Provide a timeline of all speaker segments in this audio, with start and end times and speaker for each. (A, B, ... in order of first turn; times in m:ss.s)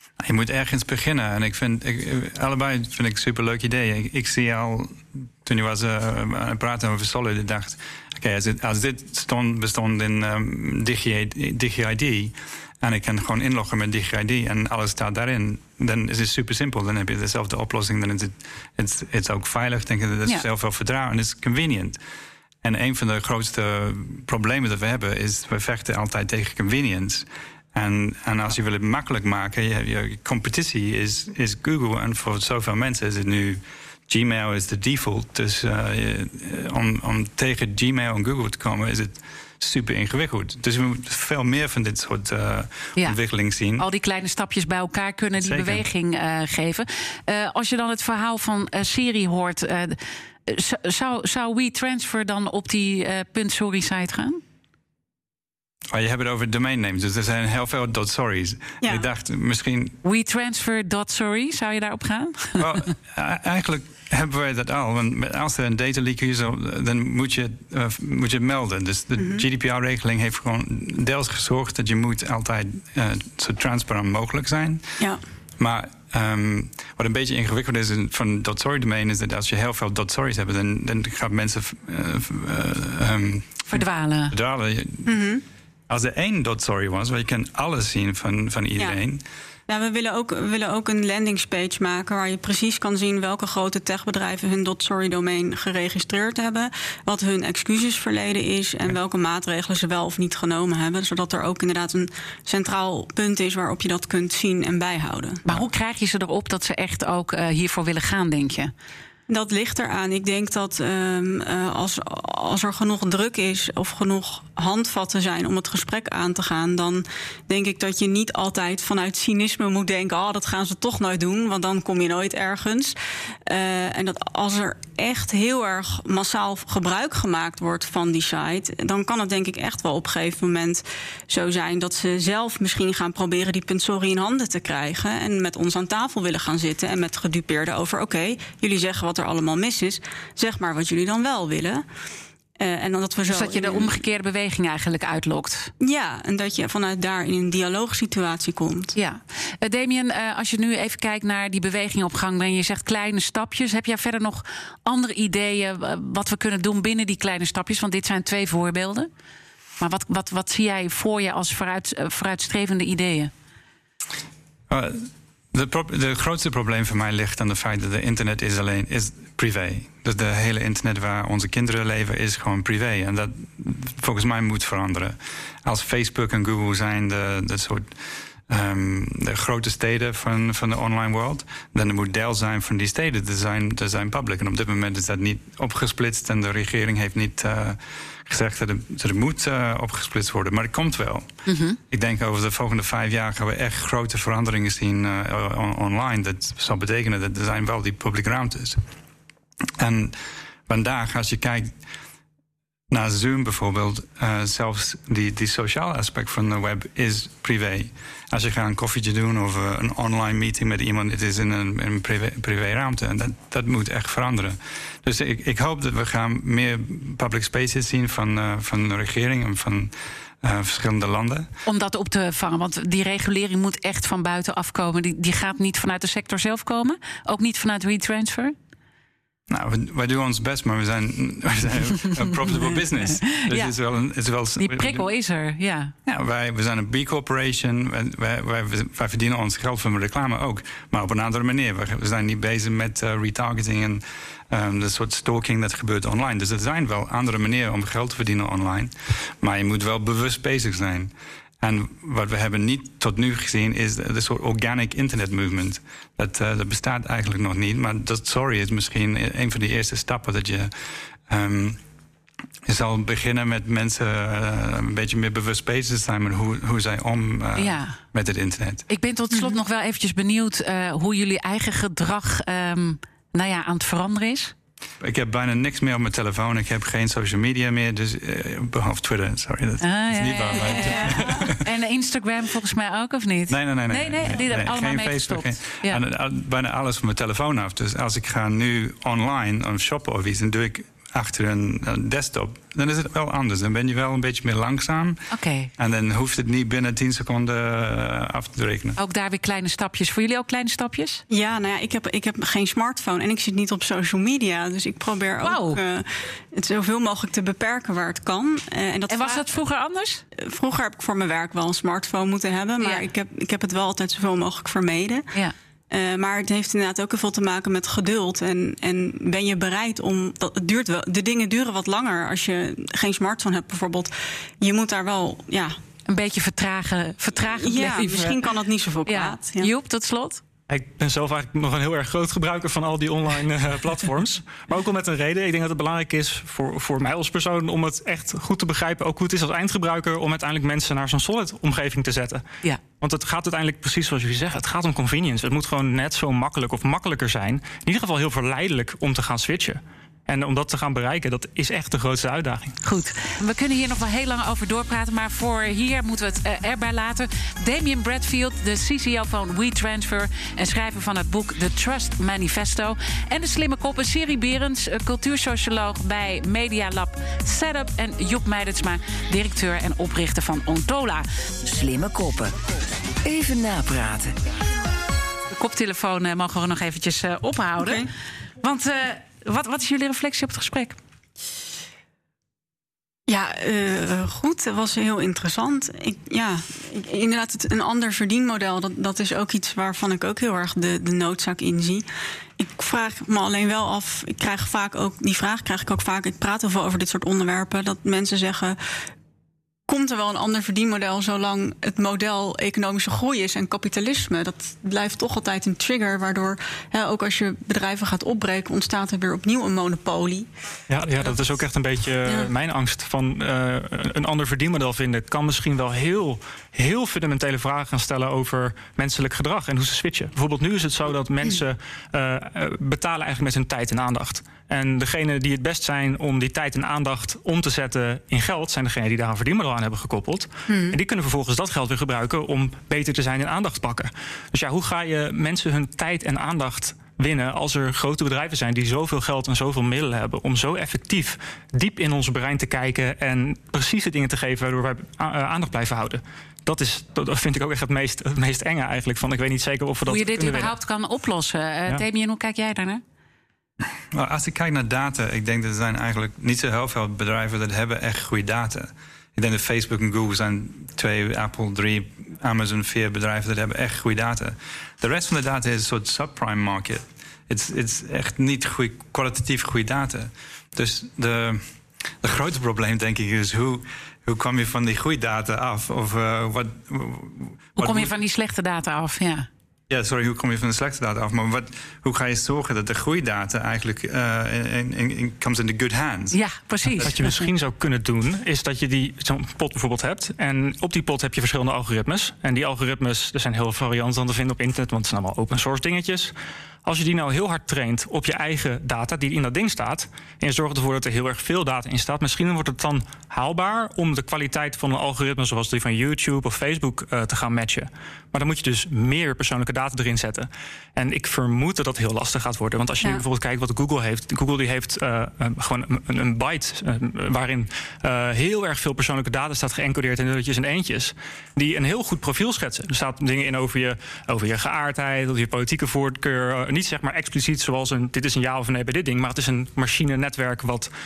0:00.2-0:22.0 A
0:22.6-0:43.9 A
0:43.8-0:54.4 B
0:45.4-0:45.8 A
0:55.9-1:00.0 A
1:00.0-1:02.7 B
1:02.6-1:14.9 A
1:09.2-1:09.4 C
1:15.6-1:25.1 A
1:23.7-1:24.4 B
1:25.1-1:25.4 C
1:25.9-1:29.2 A
1:29.7-1:45.4 C
1:45.4-1:48.7 B
1:49.3-2:03.0 C
2:03.5-2:21.8 C
2:22.6-2:23.9 C
2:23.3-2:25.7 B
2:25.8-2:28.9 C
2:28.9-2:39.1 B
2:39.8-2:43.3 B
2:44.7-2:57.9 A
2:58.5-3:11.3 A
3:11.4-3:11.8 B
3:11.9-3:18.8 A
3:19.8-3:20.2 A
3:20.7-3:21.8 A
3:22.9-3:41.5 A
3:41.6-3:48.6 B
3:49.5-3:55.1 A
3:53.4-3:53.7 B
3:54.6-3:55.9 B
3:56.1-4:20.7 A
4:21.3-4:21.8 A
4:22.6-4:28.9 A
4:27.6-4:28.0 B
4:28.9-4:34.5 B
4:35.0-4:41.6 A
4:39.8-4:46.0 B
4:43.5-4:55.2 A
4:55.3-4:55.7 B
4:55.8-4:59.0 A
4:59.0-5:01.2 B
5:01.3-5:09.4 C
5:05.4-5:05.8 B
5:09.1-5:10.2 B
5:10.4-5:15.3 C
5:12.8-5:13.0 B
5:15.9-5:25.8 C
5:26.1-5:28.4 B
5:27.4-5:29.7 C
5:29.1-5:30.4 B
5:30.7-5:42.4 D
5:43.0-5:52.8 D
5:52.8-6:11.2 B
6:11.6-6:12.6 E
6:13.2-6:14.4 E
6:15.5-6:18.1 B
6:17.8-6:18.1 C
6:18.6-6:21.0 B
6:23.3-6:32.1 C
6:32.6-6:38.8 C
6:39.9-6:50.5 C
6:50.9-7:30.7 D
7:10.7-7:11.0 C
7:30.1-7:33.0 B
7:34.1-7:51.6 A
7:52.2-7:58.1 A
7:57.8-7:59.5 B
7:59.9-8:06.4 A
8:06.3-8:07.5 B
8:07.0-8:16.3 D
8:16.8-8:50.9 D